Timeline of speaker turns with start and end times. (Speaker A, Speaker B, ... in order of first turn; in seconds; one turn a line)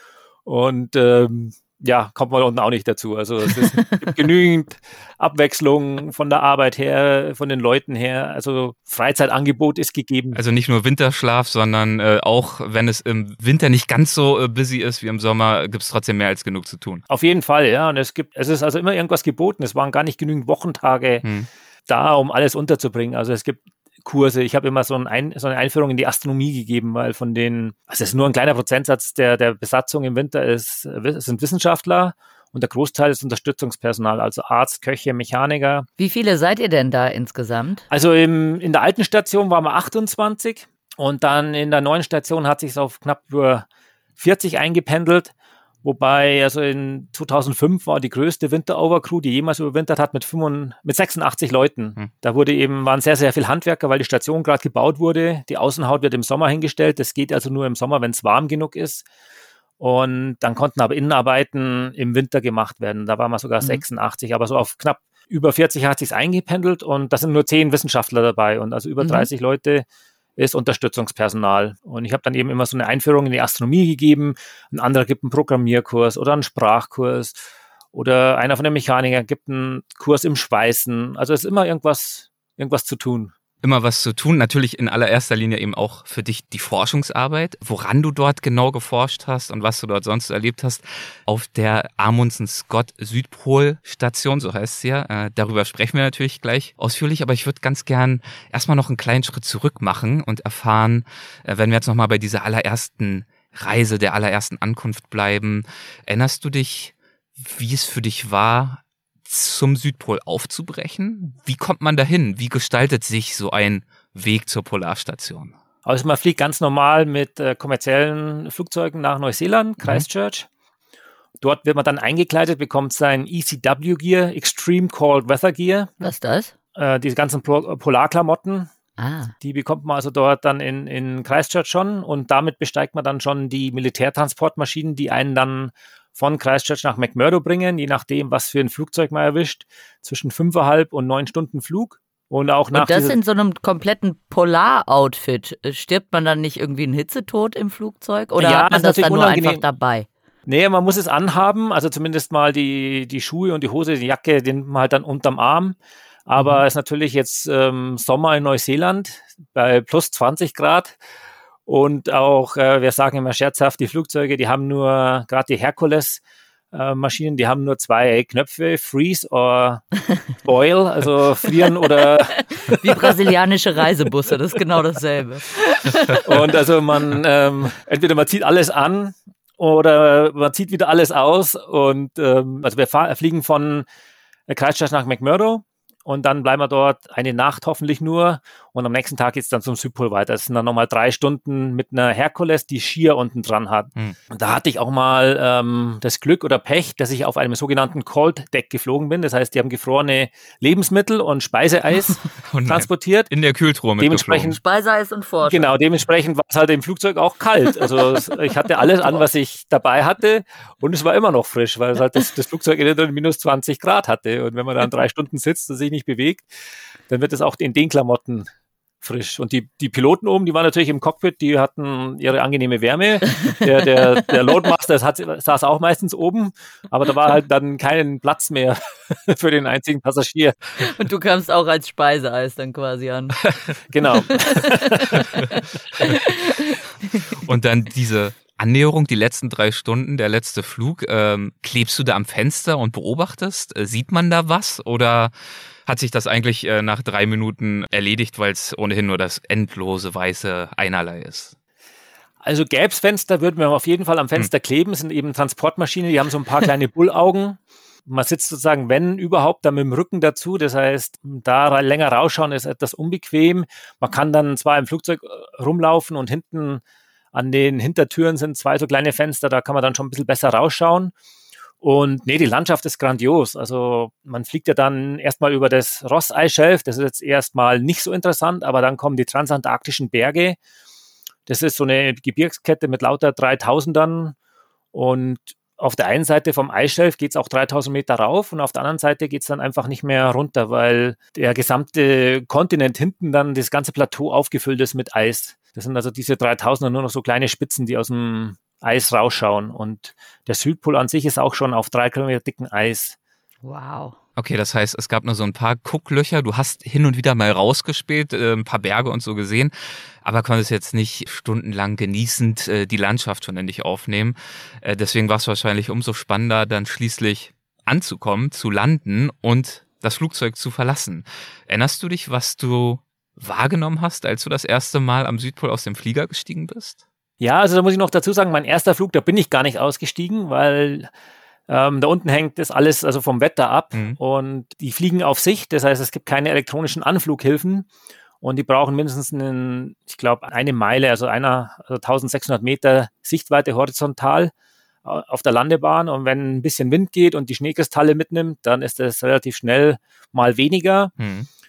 Speaker A: 0.5-10.4
Speaker B: 10.3-17.0
Speaker A: 17.1-21.2
Speaker B: 21.2-21.5
Speaker A: 21.9-35.9
Speaker C: 36.0-37.9
Speaker A: 37.9-43.7
Speaker A: 44.2-45.3
Speaker A: 45.8-59.1
Speaker A: 59.8-69.9
Speaker C: 69.0-69.3
Speaker A: 70.4-83.3
Speaker B: 83.6-115.5
Speaker A: 115.8-120.5
Speaker A: 121.4-126.1
Speaker C: 126.0-126.5
Speaker A: 126.8-128.7
Speaker C: 129.0-129.3
Speaker A: 129.4-143.2
Speaker C: 142.7-150.1
Speaker A: 148.4-149.6
Speaker A: 150.5-161.0
Speaker A: 161.7-169.8
Speaker A: 170.4-173.1
Speaker C: 172.4-176.4
Speaker A: 176.2-183.9
Speaker A: 184.5-203.3
Speaker B: 202.5-204.6
Speaker A: 204.0-204.6
Speaker C: 204.6-205.7
Speaker A: 205.4-216.5
Speaker C: 208.8-209.2
Speaker A: 217.1-218.5
Speaker A: 219.0-230.6
Speaker C: 230.8-233.4
Speaker A: 233.9-235.2
Speaker C: 234.5-235.4
Speaker C: 236.0-237.2
Speaker B: 237.4-245.3
Speaker B: 245.9-251.5
Speaker A: 252.4-266.8
Speaker A: 267.3-271.1
Speaker A: 271.8-280.6
Speaker A: 281.5-284.4
Speaker A: 284.9-303.2
Speaker C: 303.6-304.2
Speaker B: 304.4-309.7
Speaker B: 310.2-327.0
Speaker A: 327.4-331.1
Speaker A: 331.7-337.9
Speaker A: 338.4-344.5
Speaker A: 345.0-351.1
Speaker B: 351.2-351.5